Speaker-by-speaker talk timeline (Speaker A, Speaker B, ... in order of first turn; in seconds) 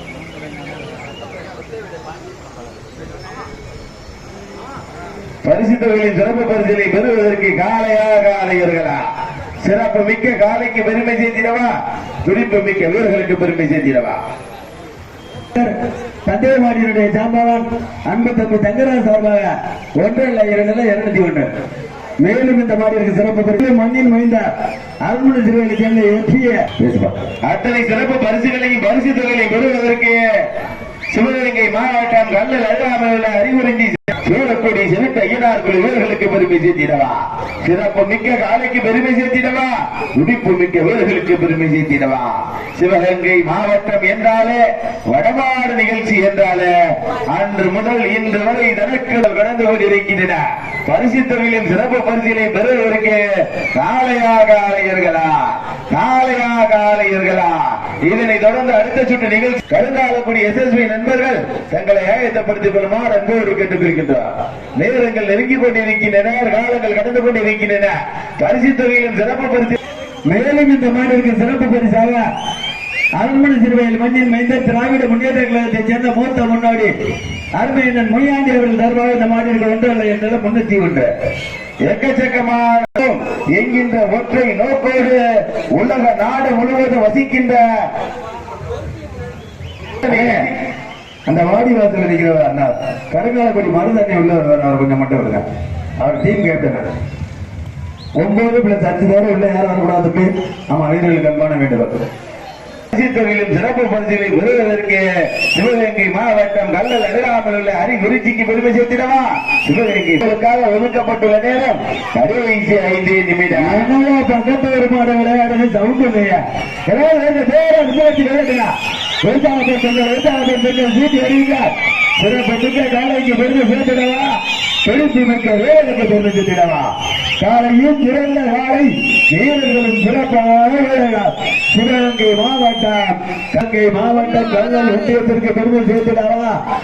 Speaker A: 5.4-9.0, 9.6-14.2, 27.2-30.2, 31.1-69.8, 81.8-87.8, 90.0-90.5, 102.9-113.8
Speaker B: 16.2-21.5, 22.2-24.5, 25.0-27.1, 70.2-72.2, 73.2-76.9, 77.6-81.1, 90.0-90.5, 91.3-95.4, 96.0-96.9, 98.2-101.9, 113.5-136.6